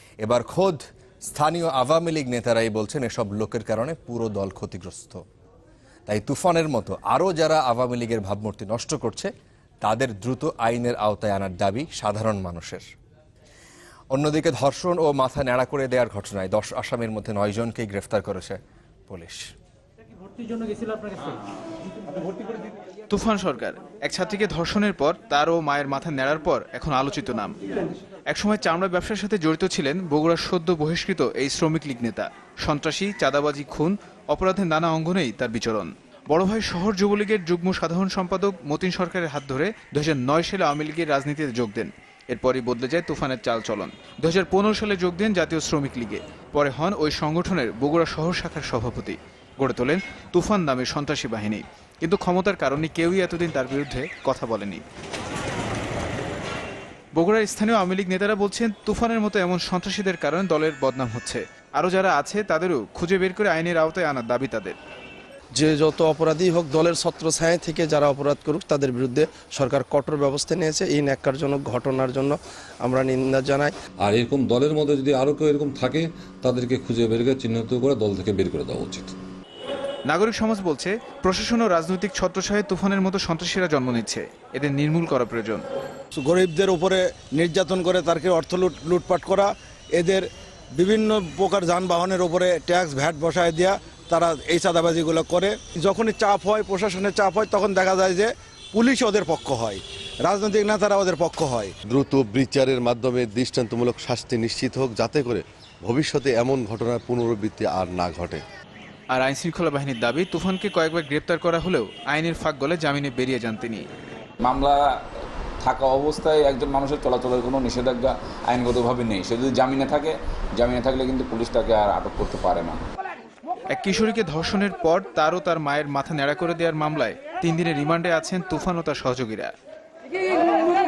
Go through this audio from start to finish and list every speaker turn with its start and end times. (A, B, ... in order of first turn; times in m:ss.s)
0:00.2-0:05.2 A
0:06.1-0:09.3 A
0:09.8-0:12.8 A
0:14.1-0:19.5 A
0:23.1-0:27.5 B
0:28.3-0:54.8 B
0:57.2-1:04.8 B
1:05.5-1:13.8 C
1:14.0-1:19.2 D
1:20.1-1:25.6 B
1:26.2-1:41.7 E
1:41.9-1:48.4 F
1:49.1-1:53.8 B
1:54.4-1:54.8 G
1:55.6-2:02.8 G
2:03.7-2:09.5 B